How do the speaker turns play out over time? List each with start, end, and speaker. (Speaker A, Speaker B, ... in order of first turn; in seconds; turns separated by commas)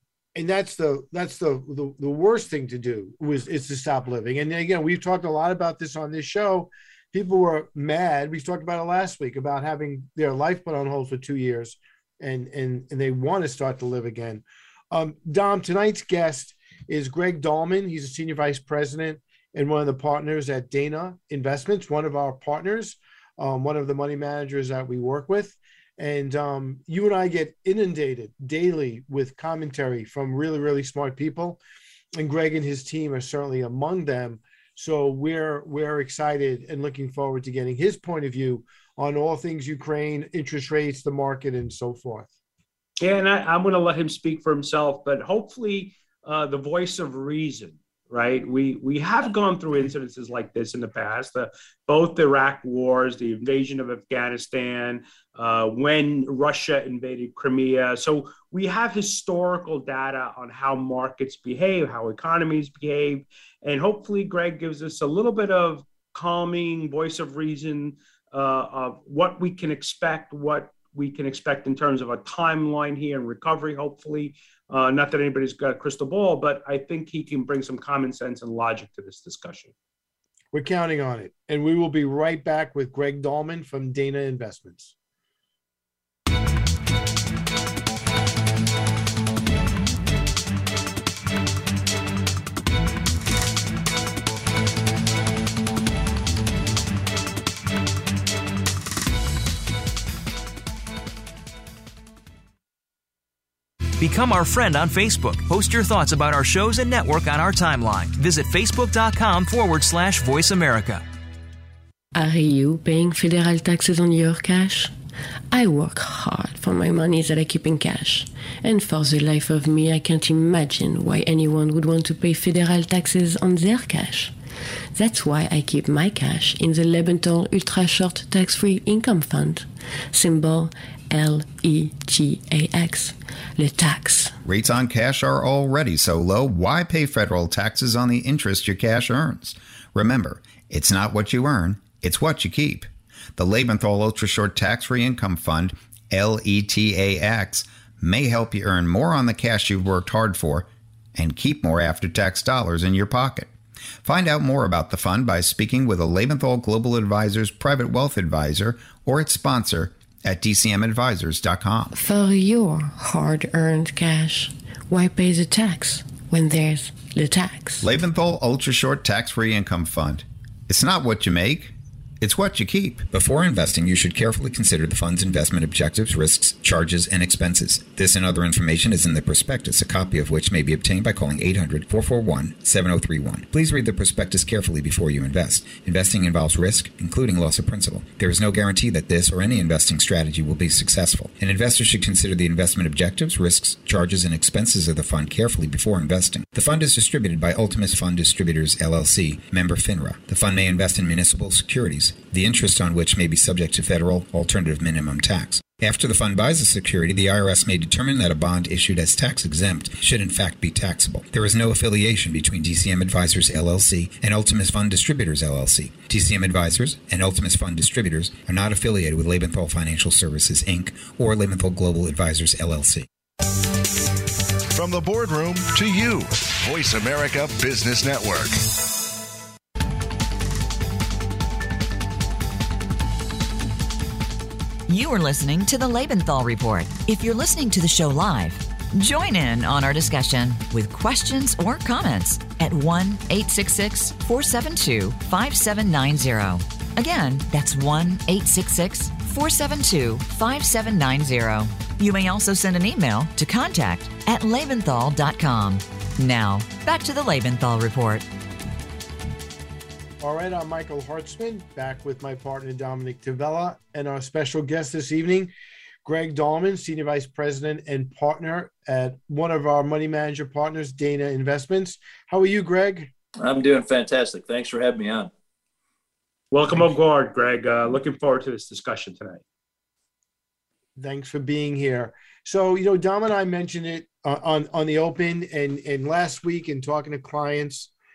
Speaker A: 0.3-31.6, Speaker A: 32.2-42.3, Speaker B: 43.0-79.7, Speaker A: 80.5-84.9, Speaker C: 104.0-111.0, Speaker D: 112.2-115.0, Speaker D: 115.5-124.4, Speaker D: 124.9-134.4, Speaker E: 134.5-150.7, Speaker E: 151.2-153.5, Speaker E: 154.1-161.9, Speaker D: 161.9-167.9, Speaker E: 167.8-223.1, Speaker F: 224.8-228.6, Speaker G: 234.9-258.3, Speaker A: 260.2-265.5, Speaker A: 266.1-273.1, Speaker H: 273.4-275.3, Speaker B: 276.5-279.4, Speaker A: 281.0-287.9